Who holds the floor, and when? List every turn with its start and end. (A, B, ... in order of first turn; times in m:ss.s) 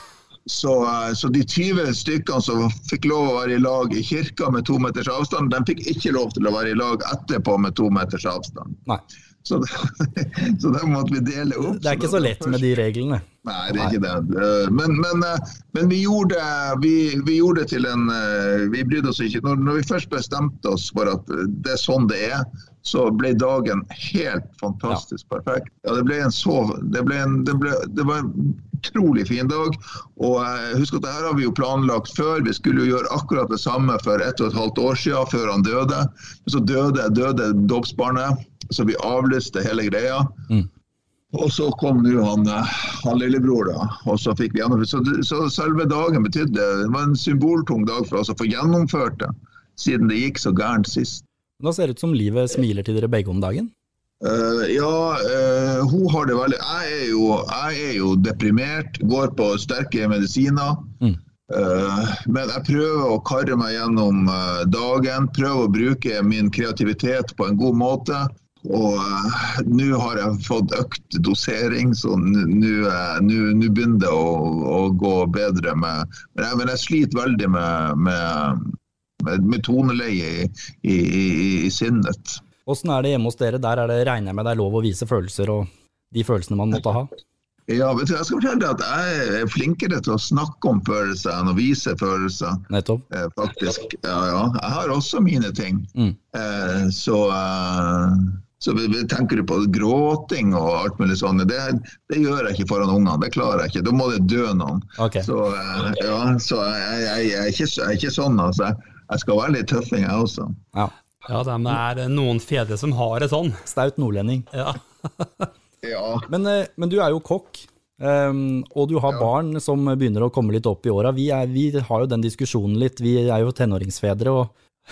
0:00.4-0:08.8 A
0:09.4-0:12.7 A
0:11.6-0:13.2 B
0:13.4-0:40.6 A
0:41.3-0:51.2 A
0:51.6-0:53.7 B
0:54.2-1:01.0 A
1:01.5-1:22.4 A
1:22.6-1:27.1 B
1:27.7-1:50.6 A
1:32.7-1:33.0 B
1:45.0-1:45.3 B
1:51.3-1:53.6 C
1:53.6-1:54.5 B
1:54.5-1:55.4 C
1:55.8-1:56.3 A
1:56.3-2:04.5 B